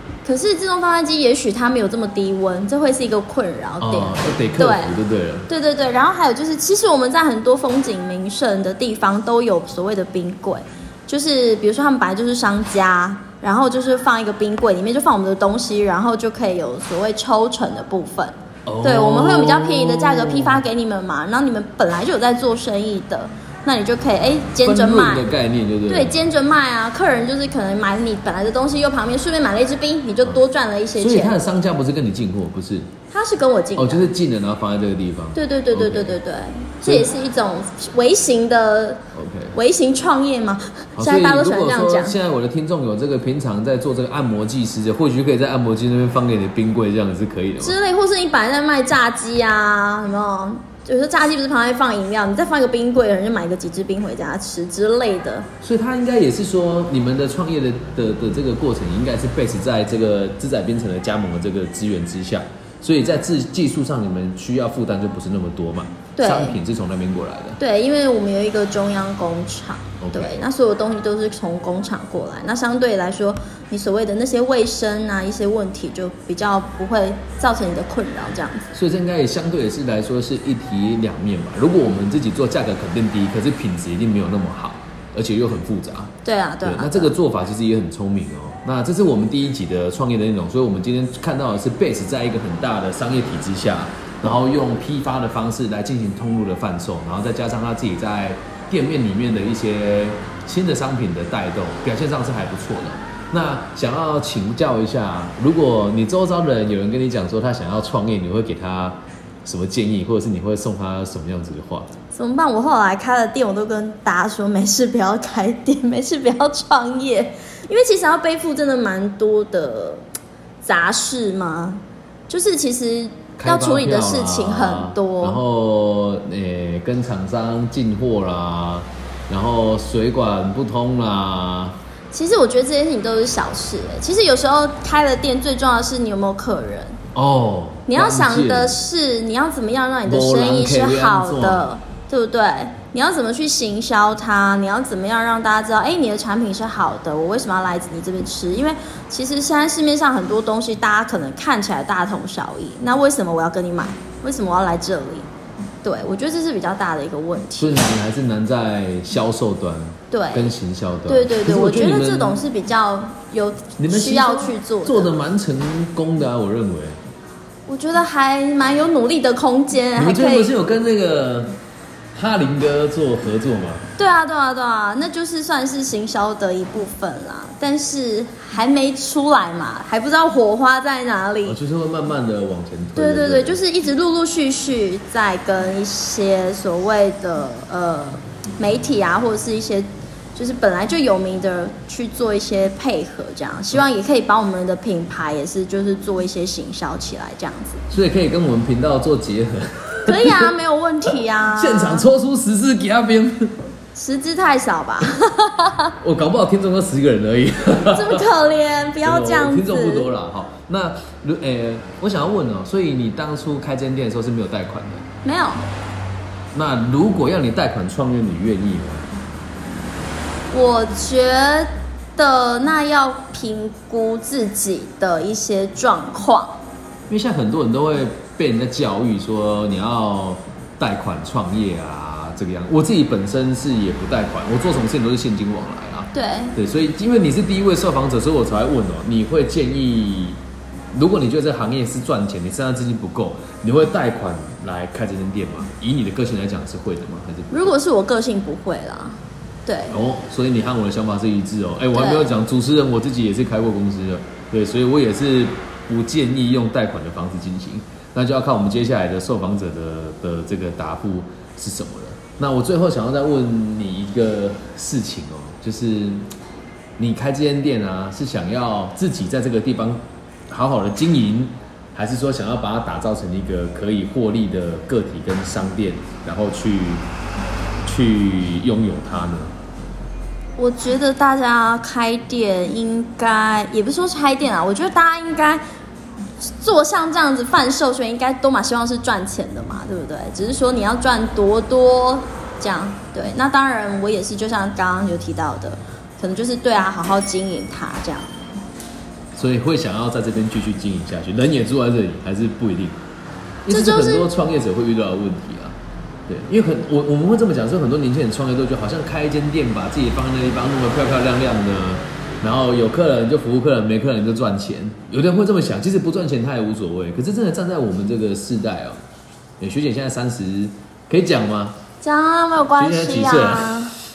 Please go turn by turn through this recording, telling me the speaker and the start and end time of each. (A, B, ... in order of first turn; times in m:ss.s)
0:00.2-0:05.0 A
0:03.8-0:05.5 B
0:05.5-0:25.3 A
0:18.7-0:20.6 B
0:24.6-0:26.2 B
0:25.9-0:31.4 A
0:31.0-0:32.9 B
0:33.1-0:34.1 A
0:33.8-0:36.2 B
0:35.4-0:39.0 A
0:36.8-0:37.1 B
0:39.1-0:39.6 B
0:39.5-0:42.2 A
0:41.0-0:47.8 B
0:47.6-0:55.5 A
0:55.6-1:07.6 B
1:06.2-1:06.6 A
1:07.6-1:18.7 A
1:10.0-1:10.4 B
1:18.7-1:26.1 B
1:26.2-1:27.1 A
1:26.6-1:51.9 B
1:52.1-2:00.0 A
2:00.6-2:05.4 A
2:03.4-2:11.8 B
2:12.1-2:17.0 A
2:17.2-2:18.8 B
2:17.9-2:35.3 A
2:20.1-2:21.7 B
2:35.8-2:37.9 A
2:37.6-2:42.4 B
2:40.1-2:40.6 A
2:41.1-2:45.1 A
2:43.8-2:47.0 B
2:47.7-2:50.5 A
2:50.0-2:51.6 B
2:52.1-2:53.8 B
2:54.0-3:01.6 A
3:01.4-3:03.6 B
3:03.0-3:17.8 A
3:17.9-3:20.5 B
3:20.1-3:22.1 A
3:21.5-3:23.6 B
3:24.0-3:25.9 A
3:26.0-3:28.2 B
3:27.9-3:30.1 A
3:29.0-3:35.0 B
3:35.2-3:35.7 A
3:36.5-3:39.1 B
3:40.5-3:46.6 A
3:47.1-4:00.4 B
3:56.1-3:56.6 A
4:00.9-4:07.7 B
4:07.5-4:10.0 A
4:09.9-4:26.3 B
4:11.9-4:12.3 A
4:27.0-4:37.0 B
4:37.8-4:39.5 B
4:40.6-4:45.6 A
4:46.5-4:58.4 A
4:59.4-5:03.0 B
5:03.7-5:05.8 B
5:03.7-5:04.3 A
5:06.3-5:19.0 B
5:19.6-5:21.8 B
5:22.0-5:24.0 A
5:22.8-5:23.9 B